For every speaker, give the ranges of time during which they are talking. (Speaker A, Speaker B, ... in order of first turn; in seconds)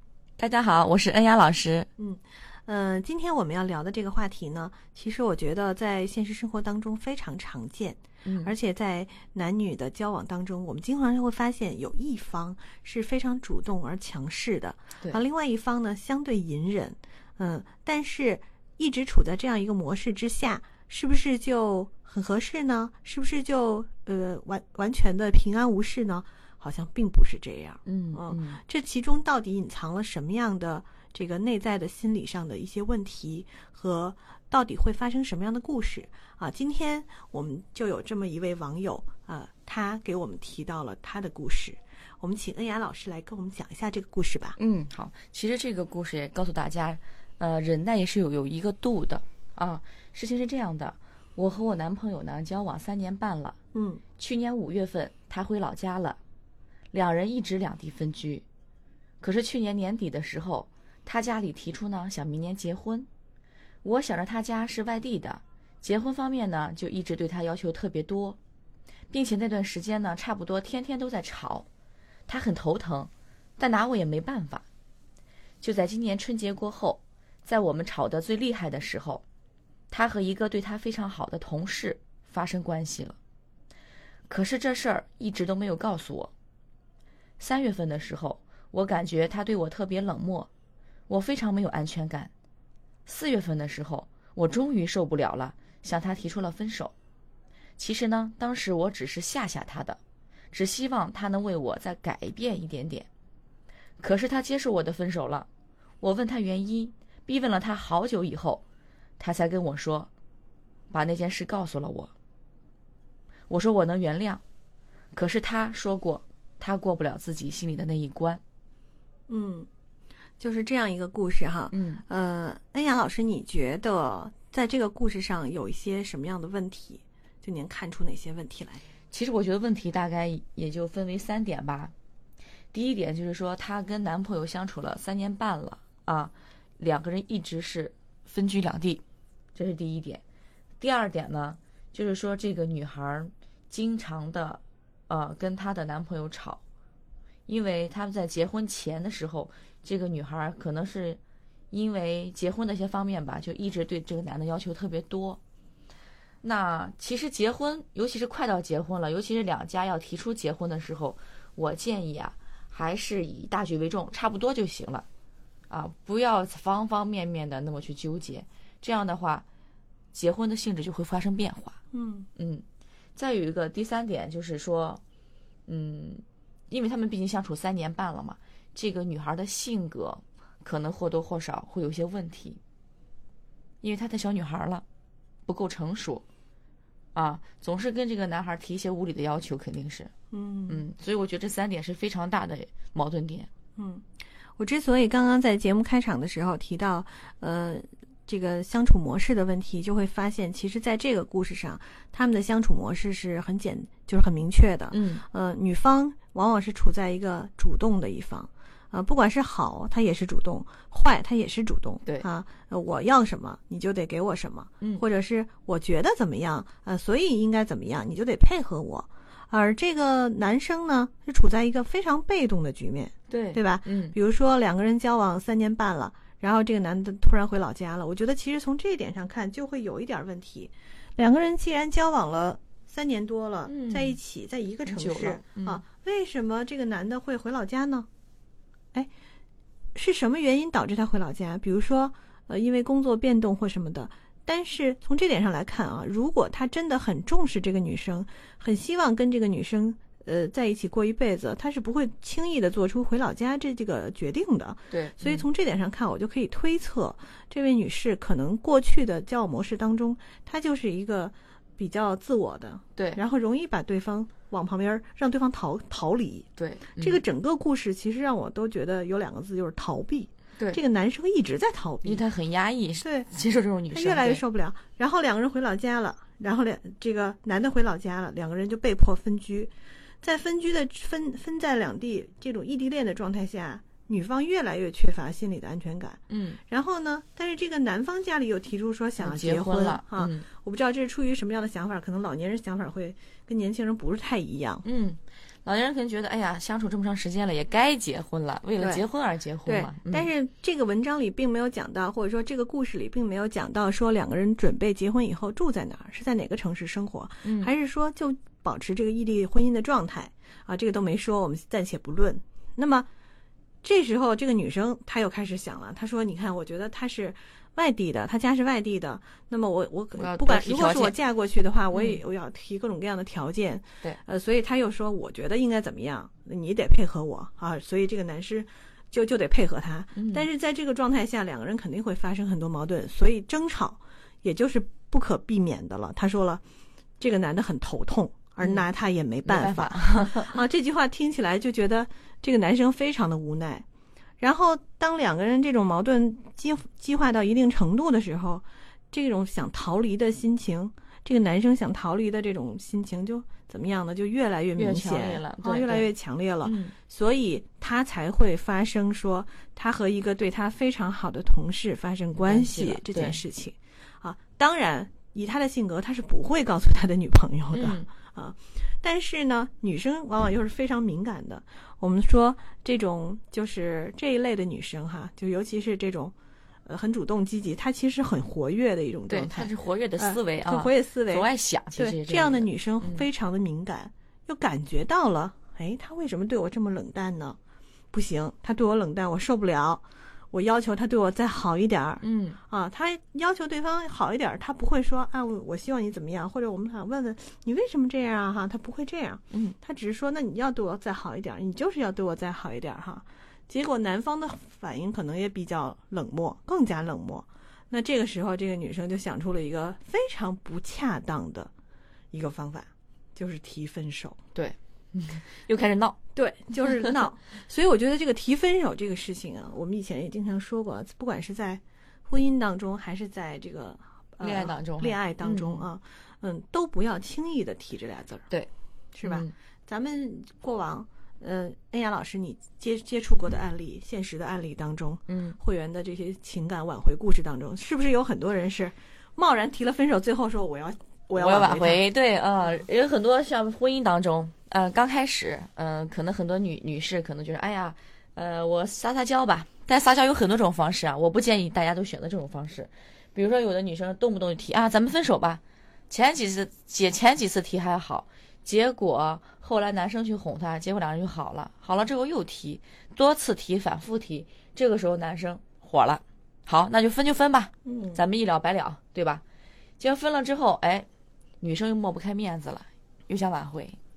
Speaker A: 0.4-1.9, 8.2-8.5, 27.9-28.6, 44.6-53.6, 54.2-56.2, 56.9-58.4, 59.2-63.1, 63.8-68.4, 69.1-71.7, 72.3-74.6, 75.6-79.2, 79.9-83.2, 84.3-86.3, 87.4-90.5, 91.1-92.3, 93.1-96.9, 97.8-100.0, 100.5-103.1, 104.0-105.5, 106.0-108.6, 109.2-110.1, 110.9-112.1, 113.5-114.4, 115.1-118.4, 121.7-122.0, 129.1-131.9, 132.7-139.0, 139.6-140.2, 140.8-146.6, 147.5-151.2, 151.7-155.4, 156.4-165.1, 165.7-169.4, 170.1-171.8, 172.4-172.6, 173.2-175.0, 175.7-182.6, 183.8-184.8, 185.5-186.2, 187.2-190.1, 190.7-193.5, 204.9-205.2, 223.3-224.2, 233.7-234.2, 234.9-235.8, 254.9-255.4, 266.6-267.2, 272.1-274.4, 286.3-286.6, 289.2-290.5, 294.8-300.3, 307.4-307.7, 320.2-321.2, 321.9-322.2, 330.2-330.5, 339.5-340.6, 354.8-356.1, 356.6-356.9, 362.4-363.4, 367.7-368.1, 379.3-383.3, 392.2-392.6, 414.6-416.2, 424.4-425.9, 429.2-429.5, 435.3-435.6, 441.4-469.4, 470.0-471.1, 471.6-474.0
Speaker B: 2.0-44.6, 53.7-54.0, 119.3-119.7, 120.4-128.8, 171.9-172.3, 190.3-190.8, 193.8-194.1, 194.6-238.1, 239.9-272.2, 273.0-273.3, 273.9-294.9, 298.8-299.1, 299.6-313.1, 313.8-336.6, 337.2-343.9, 344.4-376.3, 376.9-387.6, 388.1-411.7, 412.3-414.4, 416.4-428.5, 429.1-442.1, 467.9-468.2